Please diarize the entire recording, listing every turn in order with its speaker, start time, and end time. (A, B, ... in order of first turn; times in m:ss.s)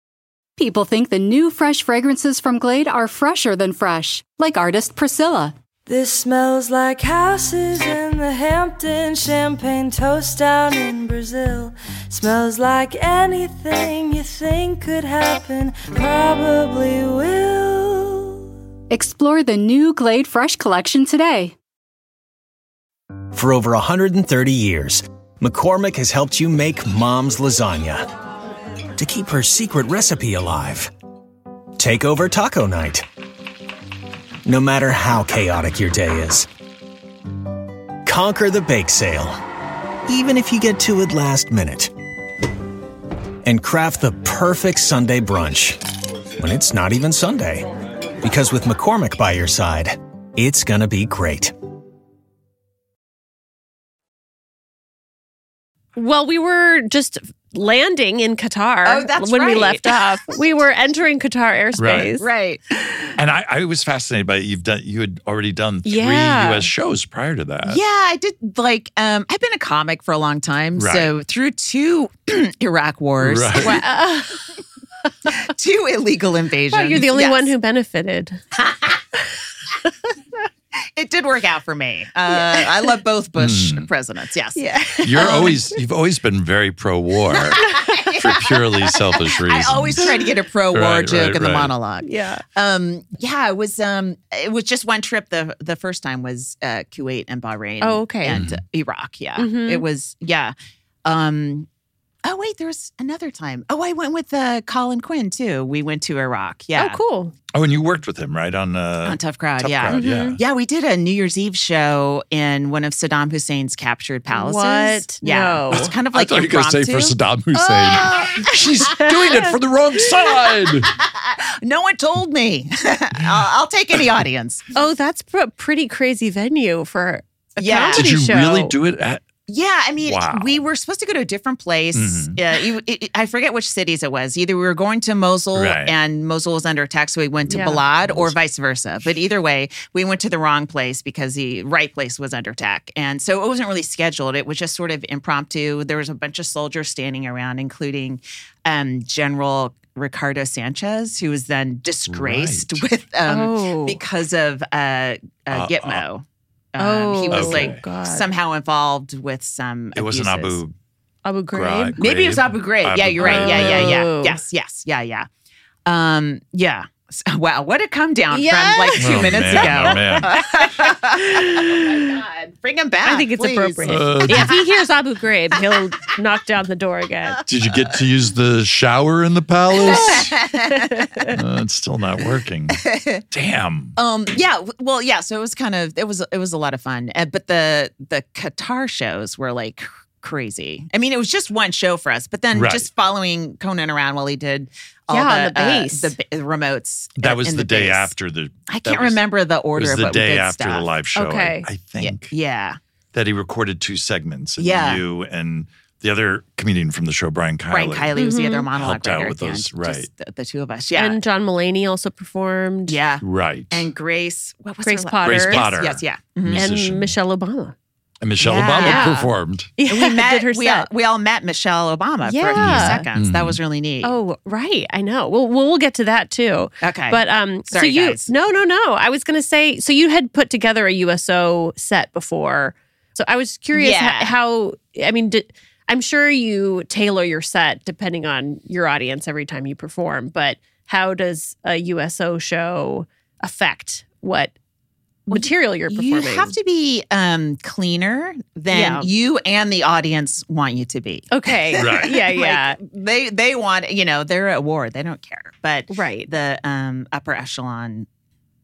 0:00.6-0:05.5 A
0:05.8-0:18.4 B
0:18.9-0:21.5 A
0:23.3-0:28.1 C
0:29.0-0:30.9 C
0:31.8-0:33.0 C
0:34.4-0:36.5 C
0:38.0-0:39.4 C
0:40.0-0:41.9 C
0:43.4-0:45.8 C
0:46.4-0:47.7 C
0:48.2-0:51.5 C
0:56.0-1:02.2 D
0:58.8-1:00.2 E
1:01.8-1:02.1 F
1:02.2-1:03.2 E
1:03.2-1:07.8 F
1:05.8-1:06.7 D
1:07.6-1:13.9 E
1:10.8-1:11.1 F
1:13.2-1:13.8 F
1:13.6-1:14.4 D
1:15.4-1:17.5 E
1:16.7-1:18.4 D
1:18.6-1:19.0 E
1:21.0-1:24.6 E
1:22.3-1:22.7 D
1:23.4-1:23.9 F
1:24.6-1:25.6 D
1:25.0-1:27.6 F
1:25.1-1:25.5 E
1:27.5-1:40.5 E
1:27.7-1:28.0 D
1:28.1-1:30.1 F
1:30.7-1:31.7 F
1:32.0-1:32.4 D
1:37.8-1:38.4 D
1:38.3-1:38.6 F
1:39.4-1:39.8 D
1:41.0-1:41.7 E
1:42.2-1:47.0 E
1:46.8-1:47.3 D
1:47.5-1:50.4 F
1:49.0-1:57.2 E
1:49.9-1:50.4 D
1:54.3-1:55.9 D
1:55.7-2:00.9 F
1:57.8-1:58.4 E
1:57.9-1:59.6 D
2:00.9-2:04.6 E
2:04.7-2:08.7 D
2:07.6-2:08.0 E
2:07.8-2:09.3 F
2:09.5-2:40.6 E
2:10.0-2:10.6 F
2:11.9-2:12.4 F
2:15.5-2:15.9 F
2:17.5-2:17.8 D
2:17.6-2:18.4 F
2:32.1-2:32.8 F
2:33.3-2:34.0 D
2:35.5-2:36.0 F
2:36.8-2:38.3 D
2:37.3-2:37.8 F
2:39.9-2:40.7 F
2:41.2-2:42.0 D
2:41.5-2:44.0 F
2:42.0-2:45.3 E
2:43.2-2:44.4 D
2:45.8-2:54.7 E
2:48.3-2:52.0 D
2:49.0-2:50.3 F
2:53.0-2:57.4 D
2:53.8-2:54.6 F
2:57.5-3:00.3 F
2:59.8-3:00.8 E
2:59.8-3:01.3 D
3:01.3-3:03.9 F
3:02.8-3:03.2 E
3:04.0-3:18.1 E
3:12.5-3:12.9 F
3:15.1-3:16.1 D
3:17.2-3:19.2 F
3:18.7-3:20.9 E
3:19.7-3:22.3 F
3:21.2-3:21.7 D
3:22.0-3:22.8 E
3:23.1-3:28.1 F
3:24.6-3:25.0 E
3:27.7-3:31.2 E
3:28.2-3:28.6 D
3:28.7-3:30.1 F
3:31.0-3:33.0 D
3:32.9-3:36.7 E
3:33.2-3:33.9 F
3:34.8-3:35.7 D
3:35.2-3:37.1 F
3:36.5-3:37.7 D
3:38.2-3:39.7 F
3:38.4-3:39.2 E
3:38.8-3:40.9 D
3:39.8-3:44.1 E
3:42.2-3:43.1 D
3:42.6-3:43.6 F
3:44.0-4:04.5 D
3:46.8-3:48.3 E
3:53.7-3:54.3 E
4:05.3-4:18.1 E
4:05.3-4:06.5 D
4:08.7-4:09.1 D
4:11.3-4:12.8 D
4:11.7-4:12.1 F
4:15.9-4:16.3 D